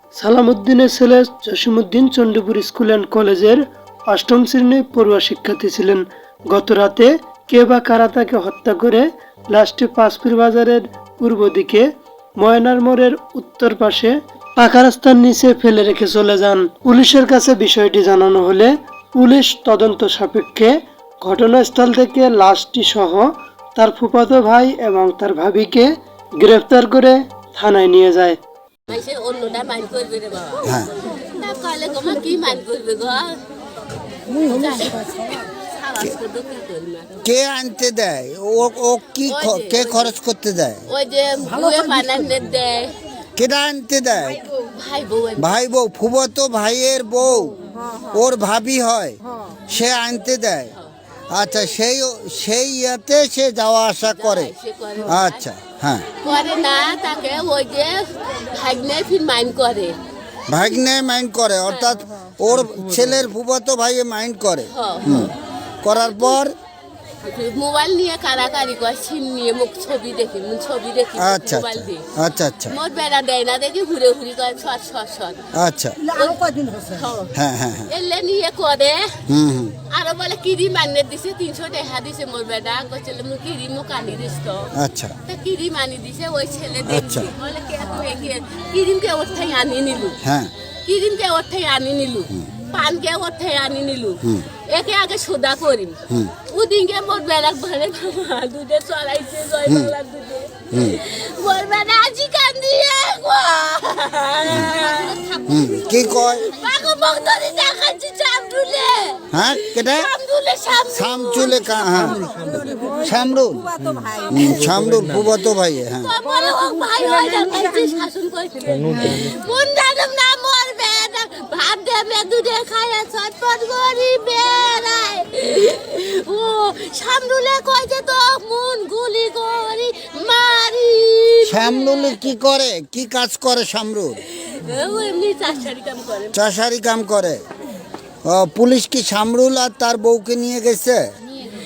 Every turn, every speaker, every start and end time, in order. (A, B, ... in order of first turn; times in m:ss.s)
0:00.2-0:11.8 A
0:12.4-0:28.4 A
0:28.9-0:33.4 B
0:30.6-0:30.9 C
0:34.4-0:37.2 B
0:37.2-0:40.8 C
0:39.3-0:40.2 B
0:40.9-0:43.0 B
0:43.4-0:44.4 C
0:44.6-0:45.6 B
0:45.4-0:50.7 C
0:51.3-0:54.5 C
0:54.0-0:55.5 B
0:55.1-0:56.1 C
0:56.2-1:00.0 B
1:00.5-1:05.3 C
1:04.6-1:05.3 B
1:05.8-1:06.5 C
1:07.2-1:12.1 B
1:11.2-1:12.7 C
1:12.7-1:15.4 B
1:15.6-1:16.0 C
1:16.1-1:17.3 B
1:17.4-1:17.9 C
1:17.9-1:19.2 B
1:19.3-1:19.8 C
1:19.9-1:24.7 B
1:24.8-1:25.1 C
1:25.2-1:30.2 B
1:26.9-1:27.3 C
1:30.2-1:30.5 C
1:30.9-1:51.8 B
1:39.7-1:39.9 C
1:40.7-1:41.0 C
1:45.5-1:46.5 C
1:49.3-1:50.1 C
1:50.9-1:53.7 C
1:54.3-1:56.1 C
1:55.9-2:12.2 B
2:11.4-2:14.2 C
2:14.3-2:16.4 B
2:16.3-2:17.4 C
2:18.2-2:21.1 C